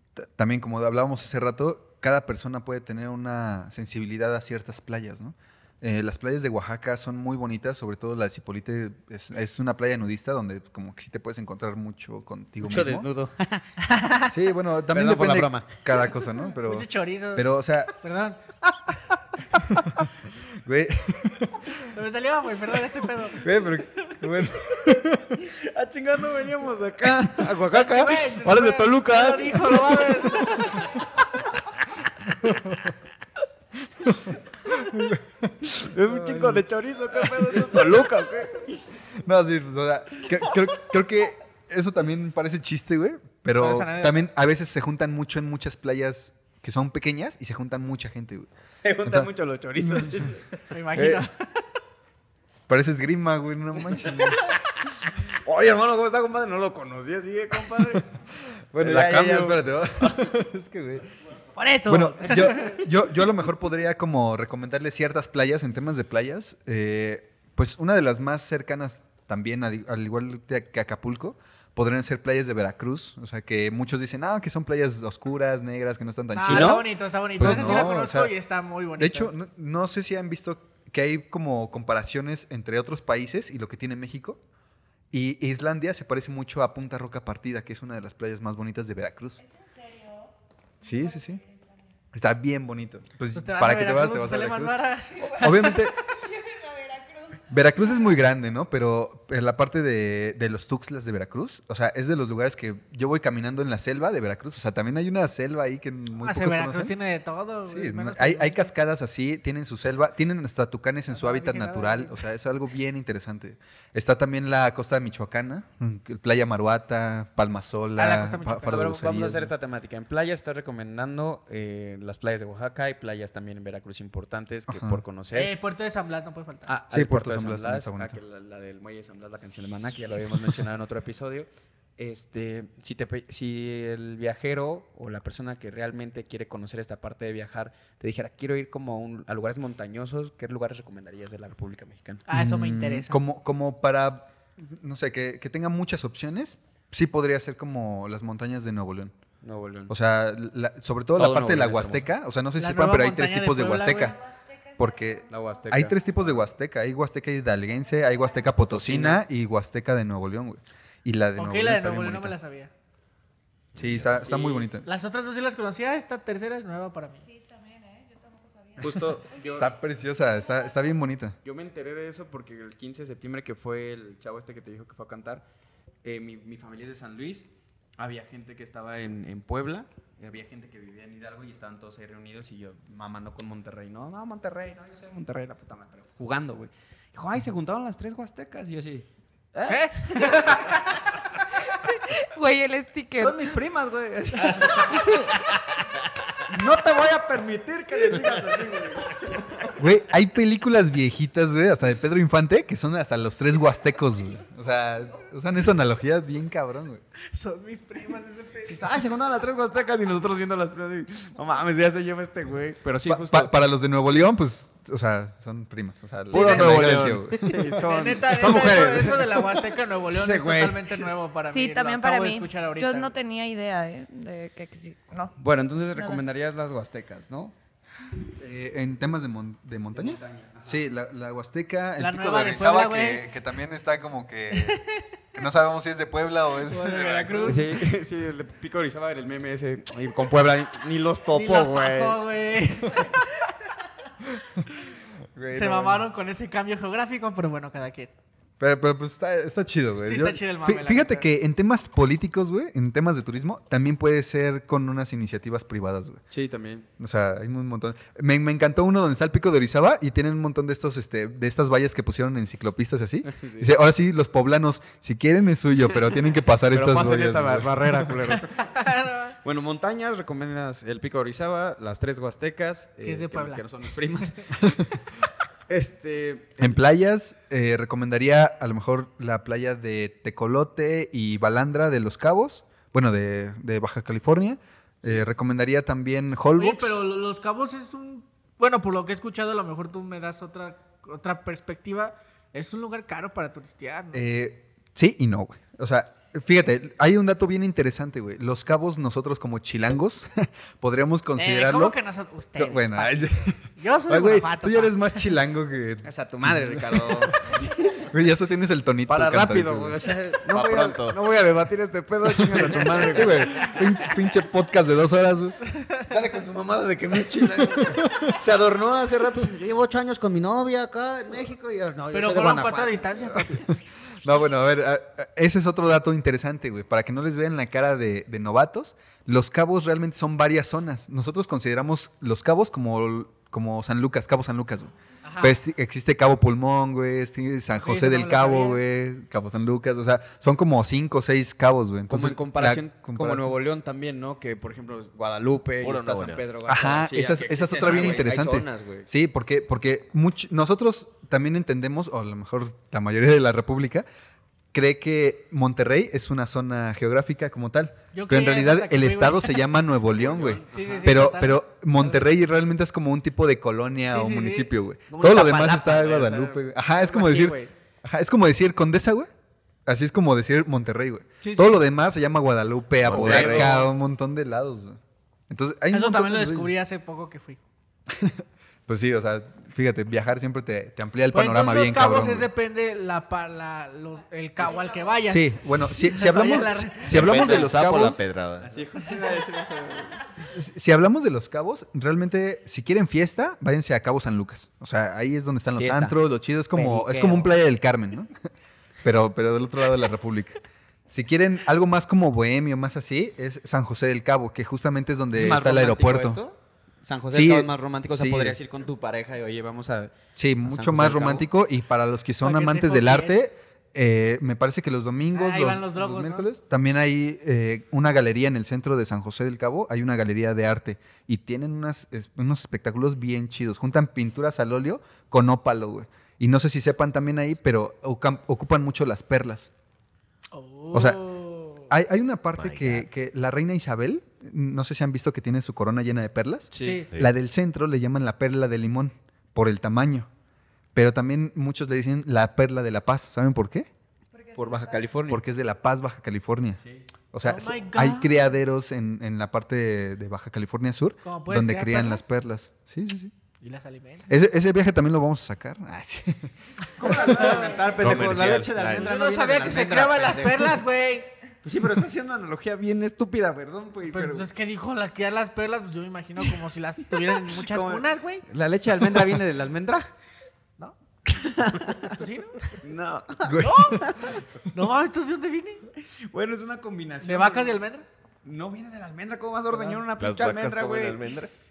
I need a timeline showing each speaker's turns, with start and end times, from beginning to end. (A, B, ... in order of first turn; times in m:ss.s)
0:00.2-0:13.1 A
0:12.6-0:13.6 B
0:13.8-0:14.3 C
0:14.3-0:17.9 A
0:14.9-0:15.7 B
0:16.6-0:18.9 C
0:19.7-0:20.0 A
0:20.6-0:21.9 A
0:21.9-0:23.5 C
0:23.3-0:25.5 A
0:25.4-0:30.0 B
0:27.7-0:30.9 C
0:32.2-0:32.9 A
0:34.0-0:36.6 A
0:35.8-0:38.8 B
0:37.4-0:38.1 A
0:39.2-0:48.5 A
0:43.6-0:44.2 C
0:48.8-0:50.4 B
0:49.0-0:49.3 A
0:49.8-0:50.3 A
0:50.7-0:51.4 C
0:50.9-0:51.2 A
0:52.7-0:54.5 A
0:55.1-0:58.1 B
0:58.7-1:01.0 A
0:58.8-1:00.3 B
1:01.6-1:02.8 C
1:01.9-1:18.3 A
1:16.3-1:19.3 C
1:16.5-1:16.8 B
1:19.0-1:24.4 A
1:25.1-1:29.4 A
1:29.4-1:30.3 D
1:30.8-1:31.4 A
1:30.8-1:31.8 D
1:32.1-1:36.0 A
1:33.3-1:35.7 C
1:35.2-1:37.5 D
1:37.5-1:46.9 A
1:46.2-1:48.7 C
1:47.6-1:59.5 A
1:51.1-1:52.2 C
1:58.0-1:58.8 C
1:58.7-2:05.5 B
2:04.7-2:05.0 A
2:05.3-2:06.7 C
2:06.6-2:22.3 B
2:06.9-2:08.2 A
2:22.3-2:23.2 C
2:22.3-2:29.1 A
2:29.4-2:29.9 B
2:29.9-2:34.2 A
2:31.1-2:32.1 B
2:32.6-2:34.1 C
2:34.0-2:35.6 D
2:34.8-2:42.4 A
2:35.3-2:36.4 B
2:38.6-2:39.2 B
2:41.4-2:42.7 C
2:43.8-2:44.9 A
2:43.8-2:44.7 B
2:44.8-2:47.2 C
2:47.2-2:49.4 D
2:48.8-2:49.7 B
2:49.0-2:51.4 A
2:51.4-2:55.4 B
2:56.0-3:10.8 B
3:09.6-3:10.6 C
3:11.8-3:13.5 D
3:13.2-3:15.3 B
3:16.5-3:19.7 B
3:19.8-3:27.0 A
3:27.3-3:28.8 C
3:28.6-3:33.6 B
3:33.0-3:37.8 A
3:36.3-3:39.2 B
3:36.3-3:37.4 E
3:37.7-3:43.1 C
3:38.4-3:39.0 F
3:40.1-3:41.0 B
3:41.5-3:45.4 D
3:45.4-3:47.5 B
3:45.9-3:46.2 D
3:48.4-3:54.8 A
3:49.9-3:50.9 B
3:52.0-3:53.2 C
3:54.5-3:54.8 C
3:55.3-3:57.6 A
3:56.6-3:57.8 C
3:56.8-4:02.2 B
4:01.3-4:03.2 C
4:04.4-4:04.6 A
4:05.3-4:06.0 A
4:05.5-4:08.1 C
4:08.6-4:16.2 A
4:10.0-4:11.3 C
4:16.3-4:16.9 B
4:17.0-4:28.1 A
4:23.3-4:23.7 B
4:26.0-4:28.6 B
4:28.6-4:29.4 C
4:29.4-4:34.5 B
4:33.0-4:33.6 C
4:35.7-4:36.8 B
4:36.6-4:47.0 A
4:46.6-4:54.2 C
4:54.1-5:02.0 A
5:01.4-5:05.3 C
5:02.6-5:10.0 A
5:06.0-5:08.0 B
5:09.1-5:13.9 B
5:10.5-5:11.1 E
5:10.6-5:11.1 F
5:12.4-5:15.6 A
5:16.1-5:19.6 B
5:17.8-5:18.3 A
5:19.5-5:23.1 F
5:22.1-5:23.7 C
5:23.5-5:43.5 A
5:35.2-5:35.6 C
5:37.8-5:38.8 C
5:42.1-5:49.1 B
5:45.8-5:46.4 E
5:46.7-5:54.0 A
5:54.7-6:09.3 A
5:58.1-5:59.7 C
6:00.1-6:01.2 B
6:00.6-6:02.2 C
6:04.0-6:04.7 C
6:05.1-6:07.7 B
6:09.8-6:15.0 A
6:11.4-6:11.8 C
6:13.0-6:13.7 E
6:13.1-6:13.9 B
6:15.5-6:16.7 A
6:15.9-6:17.6 C
6:18.1-6:22.5 A
6:21.3-6:27.7 C
6:25.3-6:28.2 A
6:27.0-6:28.7 E
6:28.6-6:30.2 B
6:30.5-6:38.3 A
6:35.8-6:36.2 B
6:36.7-6:37.5 B
6:39.0-6:46.4 A
6:45.3-6:51.5 B
6:47.3-6:48.6 A
6:50.4-7:09.7 A
6:52.4-6:53.4 C
6:55.3-6:56.5 C
7:10.5-7:11.9 C
7:10.9-7:11.2 A
7:11.9-7:20.3 A
7:12.6-7:13.1 E
7:16.7-7:17.0 B
7:16.8-7:17.1 C
7:20.9-7:23.9 A
7:24.3-7:25.1 D
7:24.5-7:25.4 B
7:25.3-7:26.8 A
7:27.3-7:33.3 A
7:27.4-7:28.4 C
7:31.2-7:32.2 C
7:33.6-7:34.3 C
7:34.3-7:37.4 A
7:37.0-7:40.8 B
7:37.2-7:37.8 C
7:38.0-7:39.1 E
7:38.9-7:41.3 C
7:41.6-7:44.5 B
7:44.0-7:48.4 C
7:47.5-7:50.1 B
7:51.2-7:52.2 B
7:52.0-7:52.7 C
7:52.8-7:54.1 B
7:53.4-7:54.1 A
7:53.6-7:54.1 C
7:54.7-7:55.8 C
7:56.1-7:57.8 B
7:57.2-7:58.0 C
7:58.4-8:01.2 B
8:00.2-8:01.5 E